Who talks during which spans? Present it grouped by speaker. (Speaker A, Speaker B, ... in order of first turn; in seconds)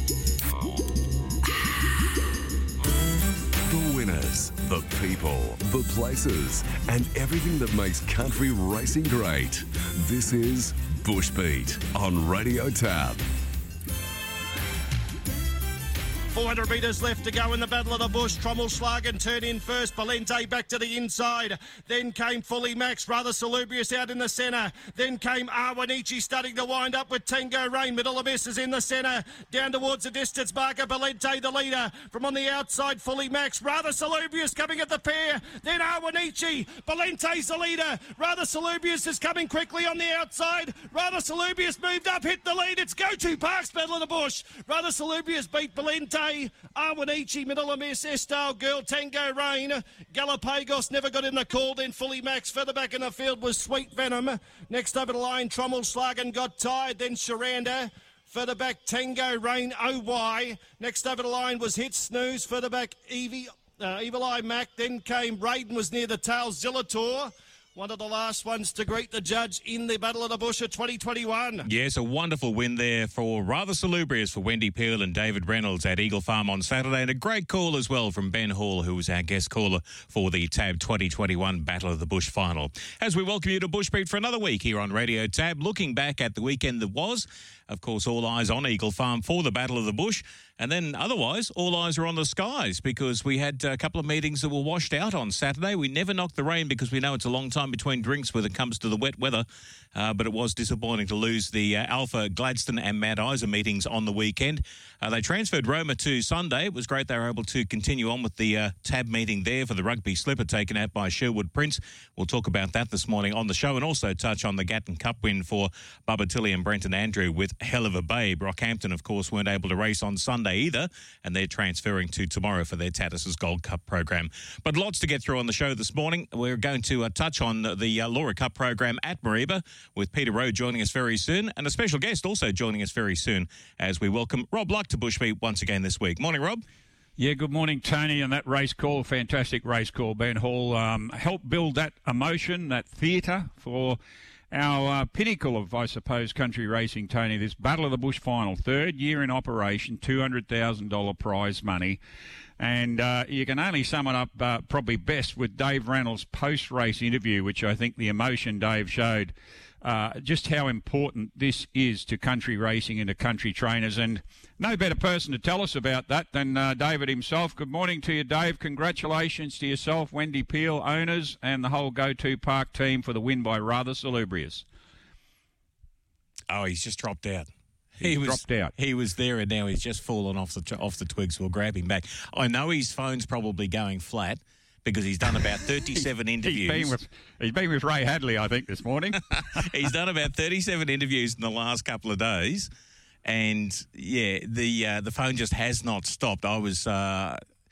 Speaker A: 0.5-0.8, 3.6-13.3
Speaker B: 16.3-71.7
Speaker C: 71.7-136.6, 176.5-177.5, 178.0-186.9, 189.6-192.7, 193.2-197.4
Speaker D: 137.2-144.0, 144.5-152.0, 152.6-174.7, 178.0-178.7, 186.0-189.6